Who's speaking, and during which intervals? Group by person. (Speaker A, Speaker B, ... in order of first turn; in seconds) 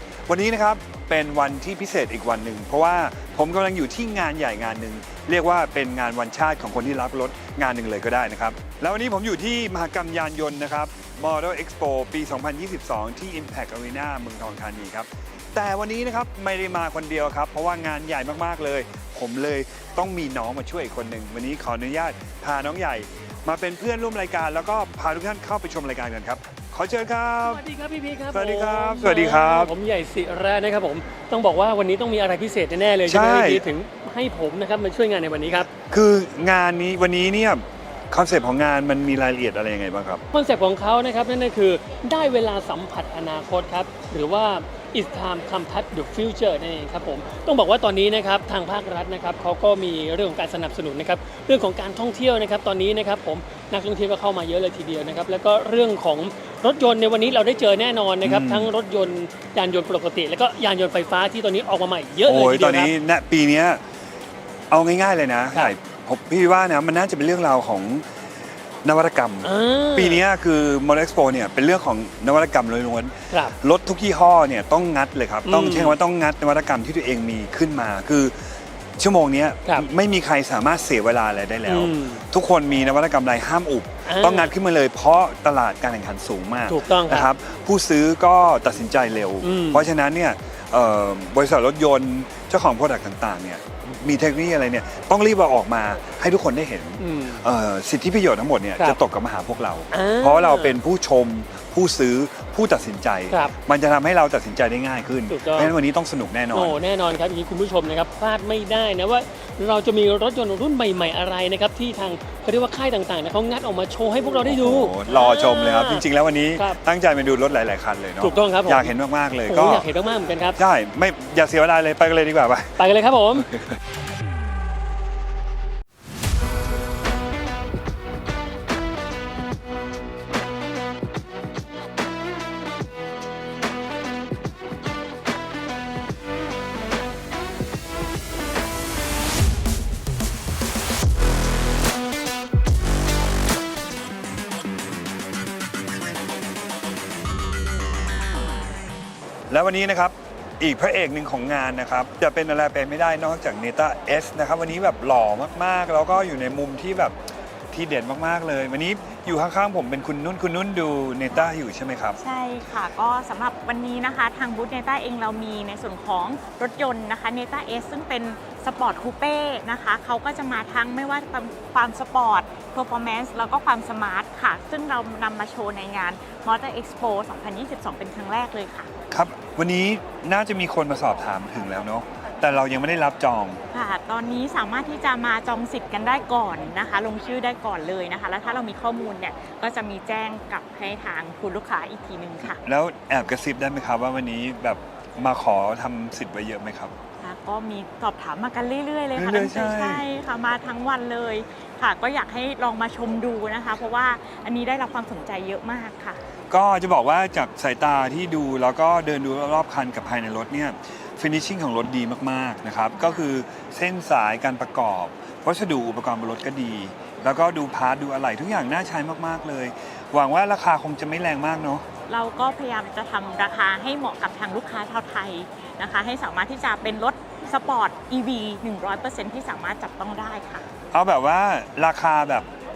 Speaker A: 0.3-27.6, 28.3-29.7, 33.0-33.7, 35.9-40.2, 58.2-58.7, 62.2-63.8, 64.7-68.1, 68.8-106.8, 114.4-119.9, 120.6-122.8, 123.3-123.8, 149.5-157.2, 157.7-162.2, 179.1-183.6, 192.4-197.0, 199.2-200.1, 206.5-221.8, 230.9-232.5
Speaker B: 27.4-35.7, 40.3-63.0, 69.4-70.2, 75.5-76.0, 81.7-82.2, 84.1-84.5, 86.7-87.3, 89.4-89.9, 97.0-97.4, 99.9-100.8, 105.3-105.7, 106.5-116.8, 118.2-118.9, 119.5-120.6, 122.8-123.5
Speaker C: 162.2-178.9, 183.7-192.6, 197.2-206.2, 213.0-213.2, 222.1-230.7